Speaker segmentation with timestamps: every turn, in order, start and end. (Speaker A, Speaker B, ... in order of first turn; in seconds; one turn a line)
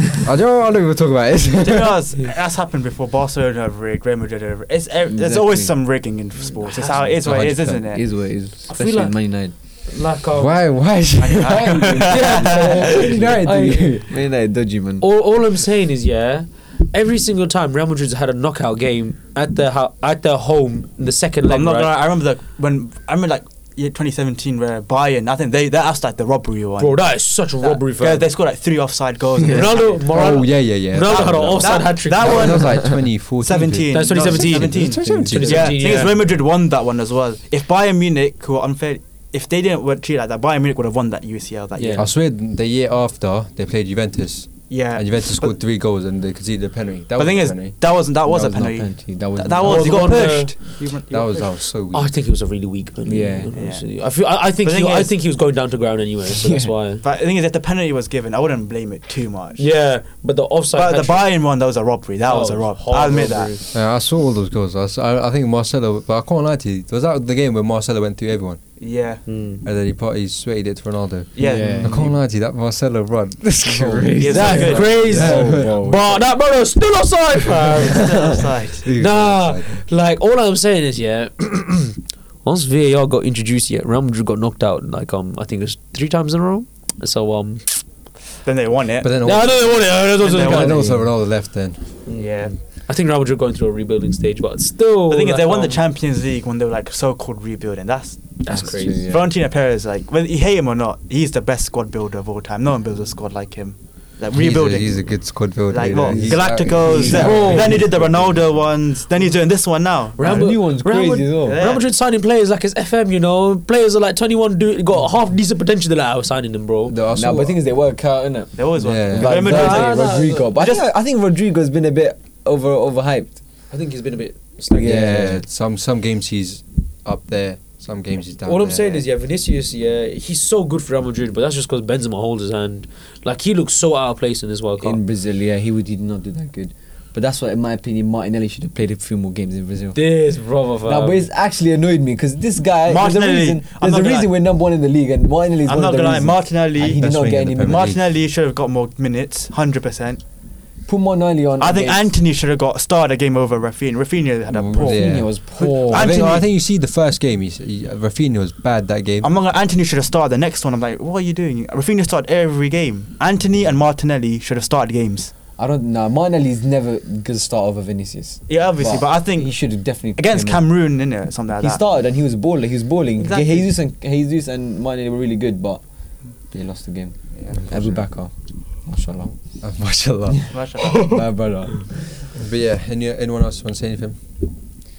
Speaker A: 0.2-2.0
Speaker B: 1.6-8.0
Speaker C: 5.1-5.7
Speaker D: 6.6-7.0
Speaker A: 7.1-7.8
Speaker C: 7.9-9.5
Speaker D: 8.7-10.6
Speaker A: 10.3-12.3
Speaker B: 11.2-12.8
Speaker C: 11.8-15.1
Speaker D: 12.1-14.0
Speaker A: 12.9-14.1
Speaker D: 15.0-22.0
Speaker B: 21.4-27.0
Speaker D: 26.8-28.3
Speaker B: 27.6-30.4
Speaker D: 29.4-32.8
Speaker A: 30.1-35.9
Speaker B: 31.0-42.1
Speaker D: 33.9-36.2
Speaker C: 35.0-35.7
Speaker D: 41.7-42.1
Speaker A: 42.0-48.1
Speaker B: 44.7-45.6
Speaker B: 47.1-51.6
Speaker C: 48.2-50.3
Speaker D: 49.6-50.8
Speaker A: 51.1-52.1
Speaker D: 51.9-57.0
Speaker C: 53.0-53.5
Speaker B: 53.5-53.9
Speaker B: 54.6-55.1
Speaker C: 56.3-56.7
Speaker B: 57.0-59.6
Speaker D: 59.6-61.3
Speaker B: 60.7-63.5
Speaker D: 62.2-63.7
Speaker A: 63.7-68.6
Speaker B: 68.8-69.2
Speaker D: 69.2-69.6
Speaker A: 69.6-75.8
Speaker B: 71.3-72.1
Speaker C: 71.4-72.1
Speaker C: 73.6-76.3
Speaker B: 74.2-75.0
Speaker D: 74.3-87.8
Speaker B: 77.8-78.9
Speaker A: 78.8-79.8
Speaker B: 88.4-90.8
Speaker A: 89.0-92.0
Speaker D: 89.2-90.8
Speaker C: 90.7-91.1
Speaker B: 92.1-92.5
Speaker D: 92.9-95.8
Speaker B: 95.1-98.4
Speaker D: 98.4-99.0
Speaker C: 98.5-99.3
Speaker B: 99.0-105.1
Speaker A: 104.3-108.4
Speaker B: 105.7-110.6
Speaker C: 106.1-107.9
Speaker D: 106.9-107.9
Speaker D: 110.2-117.0
Speaker C: 110.2-111.6
Speaker B: 111.4-111.9
Speaker A: 116.9-117.6
Speaker C: 117.1-123.4
Speaker B: 118.5-120.8
Speaker A: 118.8-119.7
Speaker D: 119.2-120.5
Speaker D: 123.7-125.1
Speaker C: 124.7-125.4
Speaker A: 124.8-129.0
Speaker D: 128.4-135.0
Speaker C: 134.8-140.0
Speaker D: 139.9-141.3
Speaker C: 140.8-147.8
Speaker B: 142.9-144.3
Speaker B: 145.7-150.2
Speaker A: 146.8-148.0
Speaker C: 150.9-152.0
Speaker B: 151.6-156.5
Speaker A: 154.5-159.3
Speaker C: 154.9-156.2
Speaker B: 159.2-165.3
Speaker C: 165.6-170.6
Speaker B: 168.5-171.8
Speaker C: 171.6-179.4
Speaker B: 173.2-173.7
Speaker A: 177.5-178.1
Speaker A: 179.6-180.9
Speaker B: 180.5-181.2
Speaker C: 181.0-182.0
Speaker A: 182.3-184.3